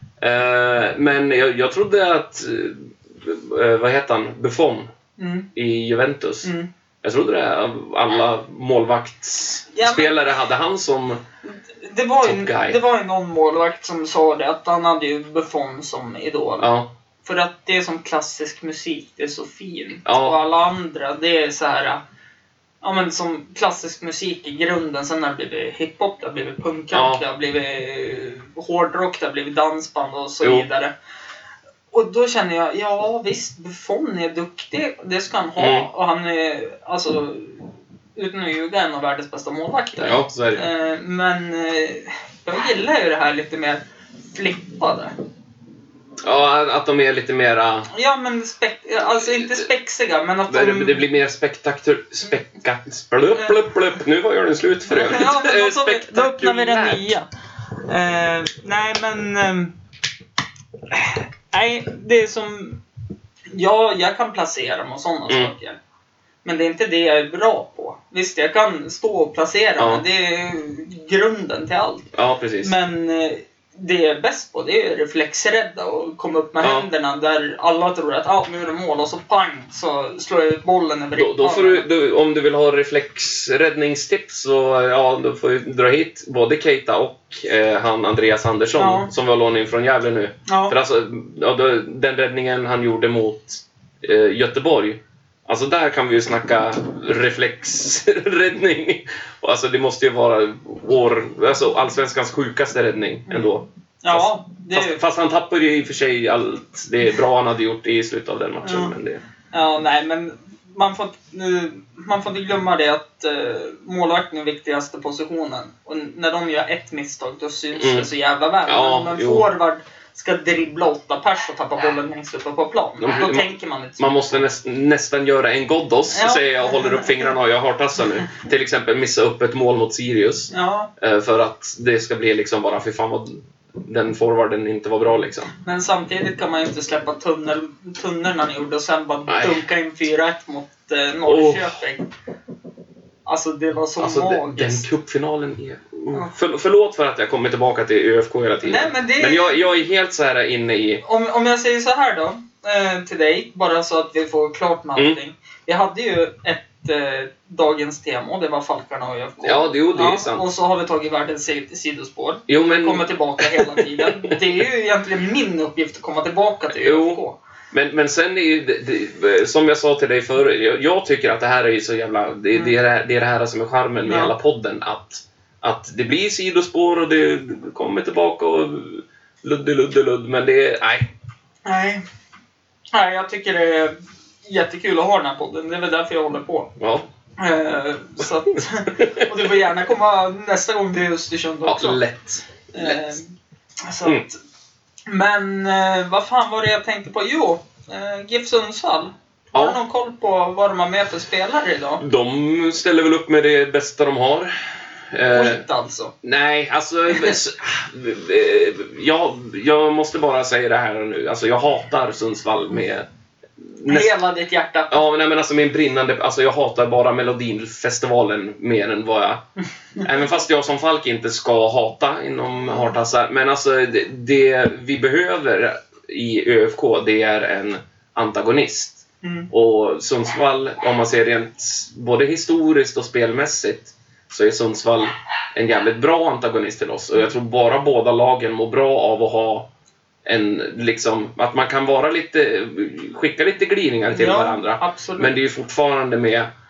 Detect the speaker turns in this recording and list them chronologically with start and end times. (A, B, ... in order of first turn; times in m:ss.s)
0:00.2-0:04.9 A
0:05.2-0:05.5 B
0:05.5-0:06.5 A
0:06.4-0:06.7 B
0:07.0-0:11.2 A
0:09.7-0:10.2 B
0:11.4-0:16.7 B
0:12.2-0:12.8 A
0:16.6-0:16.9 A
0:17.2-0:22.0 B
0:20.1-0:20.4 A
0:22.8-0:30.9 B
0:26.9-0:27.2 A
0:31.9-0:43.8 B
0:35.6-0:35.9 A
0:40.0-0:40.7 A
0:44.3-0:45.1 B
0:46.2-0:47.9 A
0:47.9-0:51.0 B
0:49.3-0:49.6 A
0:50.5-0:57.1 A
0:53.3-0:53.6 B
0:54.9-0:57.3 B
0:57.8-0:59.7 B
1:00.9-1:02.8 B
1:03.5-1:05.8 B
1:05.3-1:05.5 A
1:06.4-1:12.1 B
1:09.8-1:10.0 A
1:12.1-1:12.7 A
1:12.6-1:21.9 B
1:16.6-1:16.9 A
1:21.2-1:49.2 A
1:28.8-1:29.1 B
1:30.5-1:30.8 B
1:43.3-1:45.0 B
1:48.6-1:48.9 B
1:49.5-2:04.4 B
1:57.8-1:58.1 A
1:58.7-1:59.5 A
2:03.0-2:15.5 A
2:06.1-2:07.2 B
2:10.5-2:10.9 B
2:15.6-2:22.0 B
2:19.3-2:19.6 A
2:21.3-2:21.8 A
2:23.3-2:24.9 B
2:24.0-2:31.0 A
2:28.6-2:29.6 B
2:31.0-2:47.4 B
2:39.4-2:40.4 A
2:42.5-2:44.4 A
2:46.8-3:01.1 A
2:54.0-2:54.3 B
3:01.6-3:02.0 B
3:02.9-3:06.7 B
3:06.8-3:07.1 A
3:07.4-3:12.0 B
3:09.0-3:09.3 A
3:11.6-3:13.2 A
3:12.7-3:13.3 B
3:13.8-3:14.4 B
3:15.1-3:22.0 B
3:19.5-3:19.8 A
3:22.0-3:24.5 A
3:25.1-3:25.6 A
3:25.3-3:26.1 B
3:26.2-3:33.1 A
3:27.1-3:27.4 B
3:33.6-3:34.1 A
3:33.9-3:35.0 B
3:34.9-3:39.4 A
3:40.0-3:59.7 A
3:49.2-3:49.5 B
4:00.2-4:06.5 A
4:04.1-4:05.3 B